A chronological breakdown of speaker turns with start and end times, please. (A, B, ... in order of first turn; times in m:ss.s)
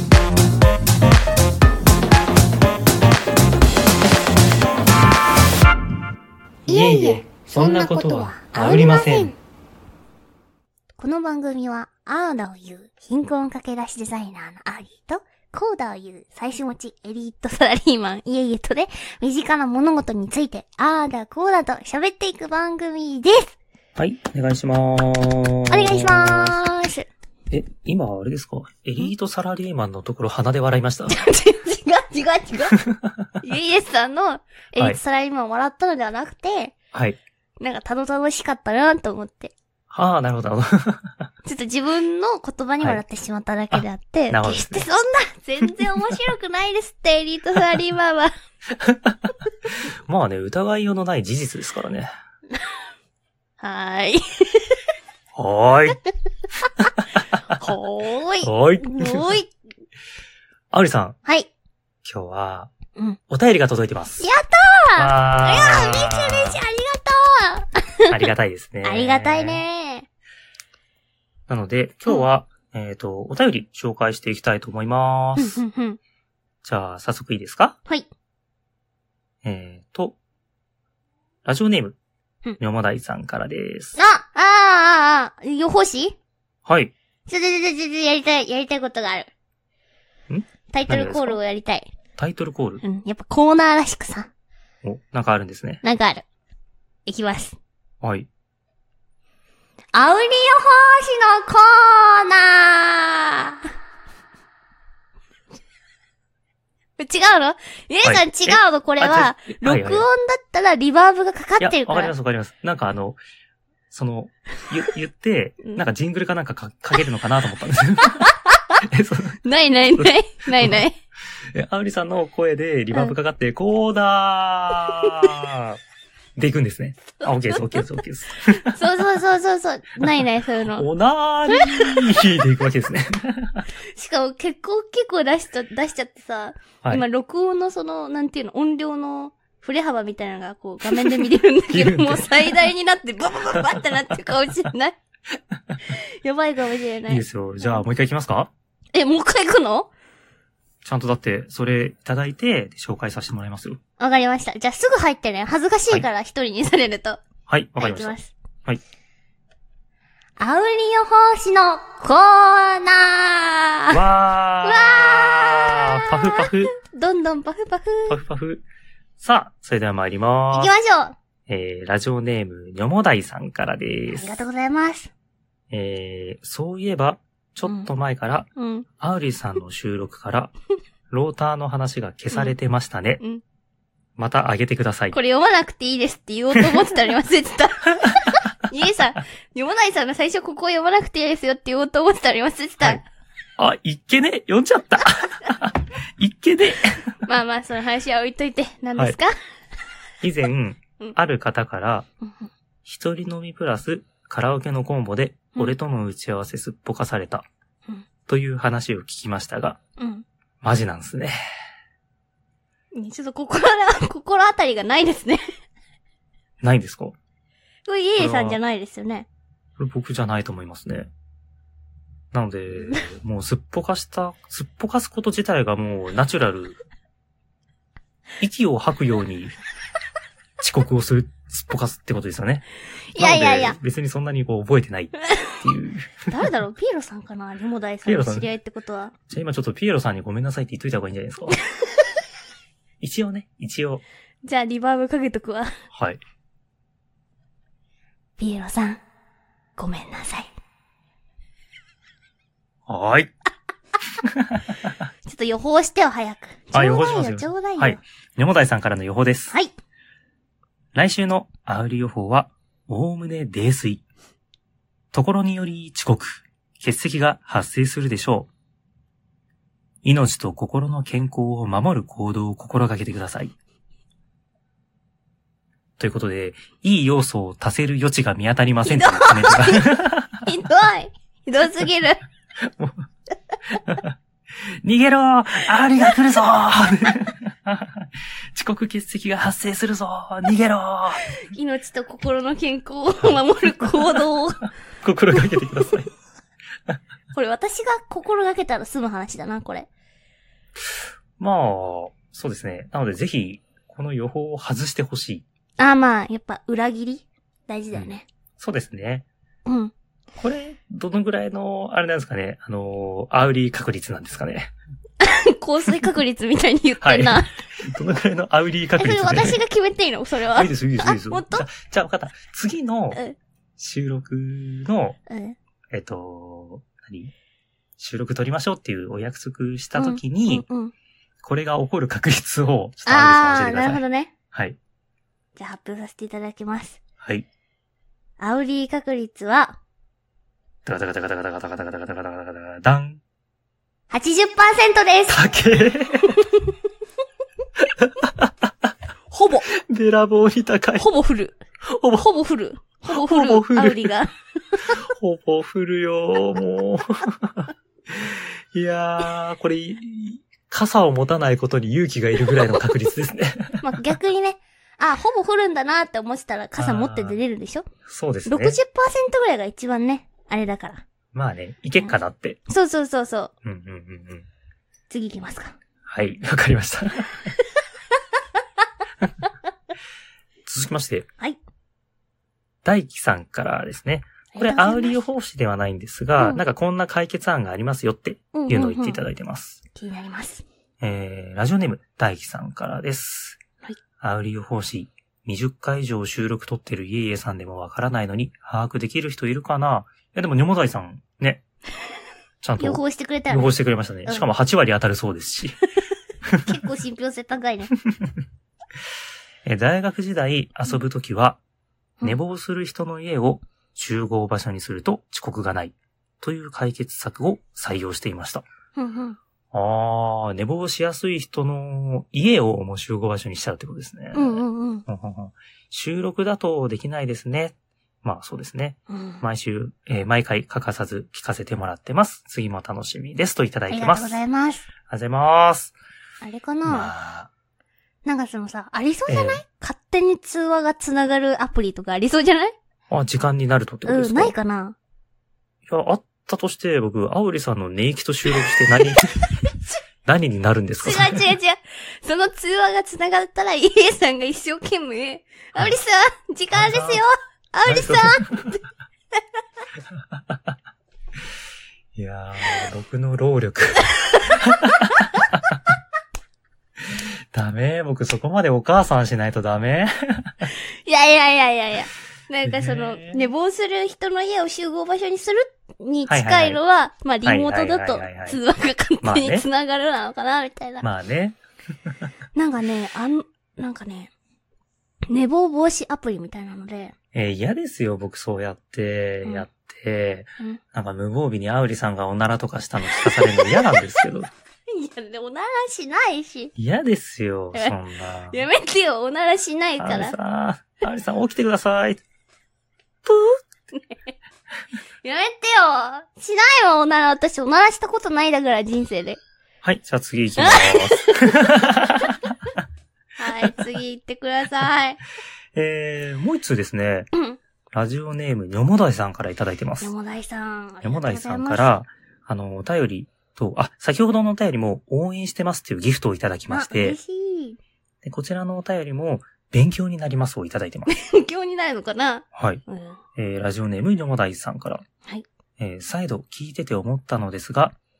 0:06.7-0:09.3 A
0:06.7-0:09.4 B
0:11.0-0:23.5 B
0:24.0-0:26.6 A
0:25.7-0:27.0 B
0:27.5-0:31.2 A
0:31.1-0:32.8 B
0:32.7-0:33.3 A
0:33.4-0:36.7 B
0:36.9-0:37.2 A
0:37.6-0:39.5 B
0:39.9-0:41.3 A
0:41.4-0:48.3 B
0:43.7-0:44.9 A
0:45.6-0:46.2 A
0:48.8-0:49.2 A
0:50.1-0:52.1 A
0:53.6-0:54.8 B
0:55.4-0:56.0 A
0:57.5-0:59.5 B
0:58.4-0:59.4 A
1:00.7-1:01.2 A
1:02.0-1:02.7 A
1:03.3-1:04.2 A
1:04.2-1:08.1 B
1:05.0-1:06.6 A
1:08.1-1:09.6 A
1:08.8-1:10.1 B
1:11.5-1:15.6 A
1:15.4-1:16.0 B
1:16.6-1:17.8 A
1:19.4-1:20.2 A
1:21.4-1:22.0 A
1:22.6-1:24.0 A
1:24.0-1:26.2 B
1:26.6-1:26.9 A
1:27.3-1:29.3 B
1:30.3-1:31.4 A
1:30.7-1:31.9 B
1:32.2-1:32.8 A
1:32.8-1:34.3 B
1:34.8-1:35.8 A
1:35.8-1:36.2 B
1:37.0-1:37.6 B
1:38.0-1:38.3 A
1:39.9-1:43.6 B
1:47.0-1:52.1 B
1:48.0-1:50.0 A
1:51.6-1:53.2 A
1:53.9-1:59.4 A
1:58.2-1:58.6 B
1:59.4-2:01.0 B
1:59.9-2:00.8 A
2:01.5-2:05.8 A
2:06.4-2:08.8 A
2:07.2-2:08.0 B
2:08.6-2:10.9 B
2:10.0-2:13.6 A
2:11.5-2:12.2 B
2:13.9-2:25.0 B
2:20.9-2:21.2 A
2:21.7-2:22.6 A
2:25.8-2:27.8 B
2:27.1-2:28.5 A
2:28.9-2:29.9 B
2:30.8-2:33.8 A
2:34.0-2:37.2 B
2:37.5-2:38.8 A
2:37.8-2:38.3 B
2:40.4-2:44.0 B
2:43.9-2:46.7 A
2:44.6-2:48.2 B
2:48.1-2:48.6 A
2:49.2-2:50.7 A
2:50.5-2:51.2 B
2:51.5-2:54.4 A
2:54.1-2:55.1 B
2:55.7-2:58.5 A
2:58.6-2:58.9 B
2:59.0-3:00.5 A
3:01.1-3:03.2 A
3:04.2-3:05.2 A
3:05.1-3:13.0 B
3:13.6-3:17.0 A
3:17.2-3:19.3 B
3:20.2-3:22.1 A
3:22.2-3:22.5 B
3:22.8-3:27.4 A
3:28.3-3:29.8 A
3:30.0-3:30.2 B
3:30.6-3:31.4 A
3:32.9-3:35.4 B
3:36.6-3:37.2 A
3:37.8-3:39.3 B
3:38.2-3:38.6 A
3:39.8-3:41.1 A
3:42.3-3:46.8 A
3:48.4-3:49.5 A
3:50.6-3:52.6 A
3:53.1-3:53.8 B
3:53.2-3:56.3 A
3:56.3-3:59.1 B
3:58.0-3:58.5 A
3:59.3-4:01.6 A
4:03.0-4:04.0 A
4:04.4-4:05.7 B
4:05.9-4:06.2 A
4:08.4-4:09.0 B
4:09.8-4:10.5 B
4:12.9-4:13.3 A
4:14.2-4:14.9 A
4:15.2-4:18.0 B
4:16.7-4:19.5 A
4:20.9-4:24.0 A
4:25.1-4:28.5 A
4:30.0-4:33.5 A
4:36.0-4:40.4 A
4:38.8-4:42.2 B
4:42.7-4:43.0 A
4:43.8-4:44.1 A
4:44.8-4:51.2 A
4:51.4-4:54.7 B
4:53.2-4:54.2 A
4:55.0-4:56.1 A
4:57.3-4:59.9 B
5:01.4-5:05.4 A
5:05.8-5:08.2 B
5:07.9-5:09.2 A
5:09.6-5:09.9 B
5:10.4-5:14.7 A
5:15.2-5:17.5 B
5:17.0-5:19.6 A
5:19.0-5:21.6 B
5:20.5-5:23.2 A
5:23.8-5:25.2 A
5:25.3-5:25.6 B
5:25.9-5:27.3 A
5:28.0-5:30.6 A
5:30.0-5:30.9 B
5:31.4-5:34.0 A
5:33.1-5:34.3 B
5:35.6-5:37.0 B
5:37.2-5:37.4 A
5:38.4-5:39.7 B
5:40.8-5:43.2 A
5:44.1-5:45.4 B
5:45.3-5:46.4 A
5:48.0-5:48.5 A
5:49.3-5:49.7 B
5:49.7-5:51.1 A
5:51.0-5:51.5 B
5:51.9-5:52.3 A
5:52.2-5:55.0 B
5:53.1-5:54.1 A
5:54.9-6:03.8 A
6:03.8-6:07.8 B
6:06.8-6:07.4 A
6:08.0-6:08.8 A
6:08.4-6:11.0 B
6:11.3-6:12.6 A
6:12.7-6:13.5 B
6:13.6-6:14.5 A
6:15.1-6:15.7 B
6:16.0-6:17.5 A
6:20.6-6:21.3 A
6:22.8-6:29.8 A
6:24.5-6:25.2 B
6:28.5-6:29.2 B
6:29.9-6:30.6 B
6:31.0-6:33.6 A
6:34.2-6:41.6 A
6:42.6-6:45.7 A
6:42.8-6:44.5 B
6:46.6-6:47.9 B
6:49.6-6:51.6 A
6:52.2-6:58.6 A
6:59.0-6:59.4 B
6:59.7-7:14.4 A
7:04.3-7:05.0 B
7:09.1-7:09.4 B
7:13.9-7:14.9 B
7:15.1-7:15.9 A
7:16.4-7:17.1 B
7:16.8-7:17.5 A
7:18.2-7:22.7 B
7:19.3-7:19.6 A
7:23.1-7:24.5 A
7:24.0-7:25.0 B
7:25.9-7:29.4 A
7:30.2-7:31.5 A
7:31.0-7:38.8 B
7:36.7-7:37.2 A
7:37.8-7:38.7 A
7:42.2-7:45.6 A
7:47.1-7:50.6 A
7:50.6-8:01.0 B
7:52.6-7:53.4 A
7:56.3-7:56.8 A
7:57.4-7:58.6 A
7:59.2-7:59.6 A
8:01.0-8:01.6 A
8:02.6-8:04.3 B
8:05.3-8:07.1 B
8:07.3-8:14.5 A
8:13.0-8:14.0 B
8:14.9-8:16.7 B
8:16.8-8:18.6 A
8:18.5-8:20.4 B
8:20.0-8:22.2 A
8:23.2-8:23.5 A
8:23.9-8:24.3 B
8:25.2-8:29.4 B
8:29.8-8:32.3 A
8:30.6-8:31.7 B
8:33.4-8:35.2 B
8:35.7-8:37.3 A
8:37.3-8:37.6 B
8:37.9-8:40.1 A
8:40.0-8:41.9 B
8:41.0-8:47.2 A
8:46.7-8:47.8 B
8:48.2-8:51.1 A
8:51.1-8:53.2 B
8:52.5-8:52.8 A
8:53.4-8:55.0 A
8:55.8-8:58.0 A